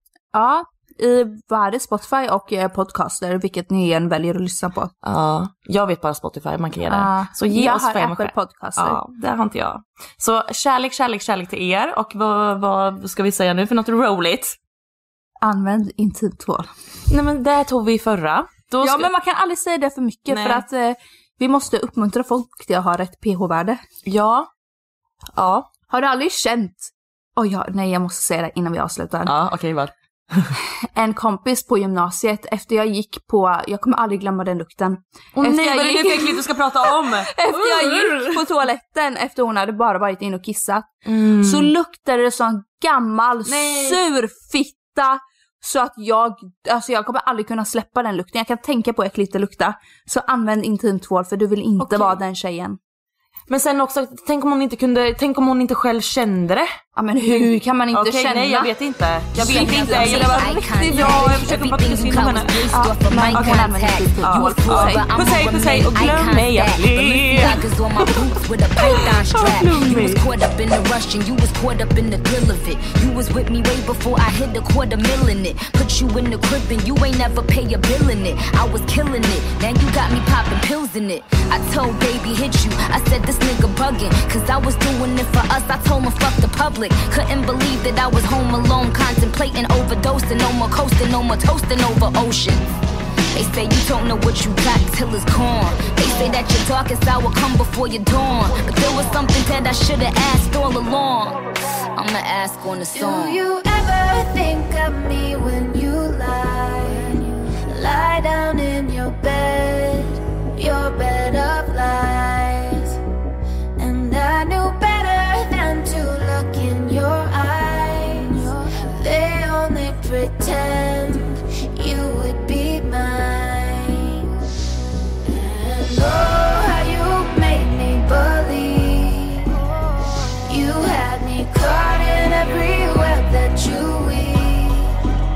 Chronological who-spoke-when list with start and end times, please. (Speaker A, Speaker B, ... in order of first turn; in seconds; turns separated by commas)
Speaker A: 0.3-4.9, Speaker B: 5.0-14.6, Speaker A: 6.9-9.0, Speaker A: 15.4-16.7, Speaker B: 17.1-19.1, Speaker A: 18.8-23.8, Speaker B: 20.3-20.6, Speaker B: 24.1-24.5, Speaker B: 25.4-25.7, Speaker A: 25.9-29.3, Speaker B: 29.2-30.5, Speaker A: 30.9-52.8, Speaker B: 35.3-38.4, Speaker B: 41.0-41.7, Speaker B: 43.5-44.0, Speaker B: 51.8-52.2, Speaker B: 53.5-56.7, Speaker A: 57.0-58.7, Speaker B: 57.3-62.8, Speaker A: 59.3-61.5, Speaker C: 59.6-92.6, Speaker A: 62.7-65.1, Speaker B: 63.3-68.2, Speaker B: 68.8-70.2, Speaker C: 93.3-101.4, Speaker C: 101.9-103.4, Speaker D: 102.9-113.0, Speaker D: 113.8-124.3, Speaker D: 125.2-129.6, Speaker D: 130.4-135.0